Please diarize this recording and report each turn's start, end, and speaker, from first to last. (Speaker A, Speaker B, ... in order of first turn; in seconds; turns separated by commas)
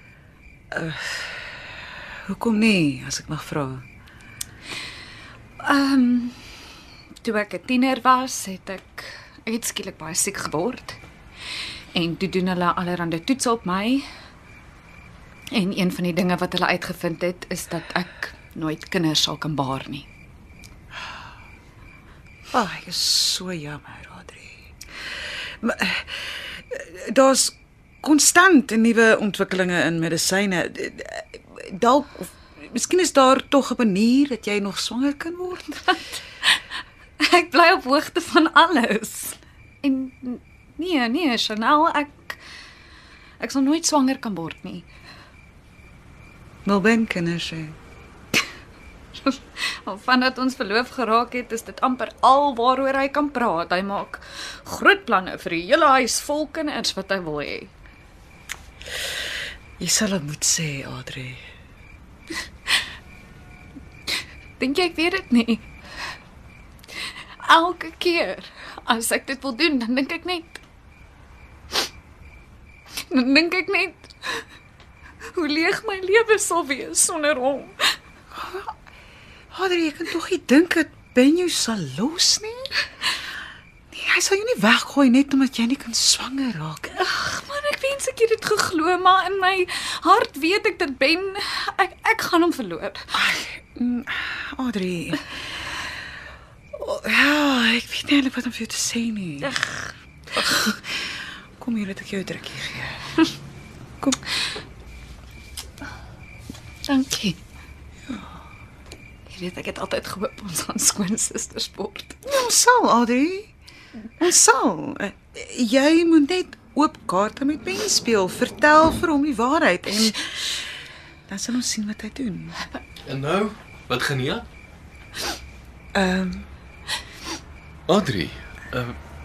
Speaker A: 0.7-1.4, Speaker A: 2.3-3.9, Speaker B: 5.6-6.4, Speaker B: 7.2-11.0, Speaker B: 11.9-14.0, Speaker B: 15.5-20.1, Speaker A: 22.5-24.6, Speaker A: 25.6-35.9, Speaker B: 37.2-42.4, Speaker B: 43.4-44.9, Speaker A: 46.6-47.8, Speaker B: 49.1-57.7, Speaker A: 59.8-61.4, Speaker B: 64.6-65.7, Speaker B: 67.4-70.6, Speaker B: 73.1-74.1, Speaker B: 75.3-77.8, Speaker A: 78.3-78.7, Speaker A: 79.5-82.7, Speaker A: 83.9-87.0, Speaker B: 87.0-93.0, Speaker A: 93.1-95.2, Speaker A: 96.8-99.6, Speaker A: 100.3-100.8, Speaker A: 101.6-103.0, Speaker B: 106.9-107.4, Speaker B: 109.3-112.2, Speaker A: 112.2-113.5, Speaker A: 114.2-120.6, Speaker A: 121.3-122.5, Speaker C: 123.0-124.5, Speaker A: 125.9-126.5, Speaker C: 127.9-128.9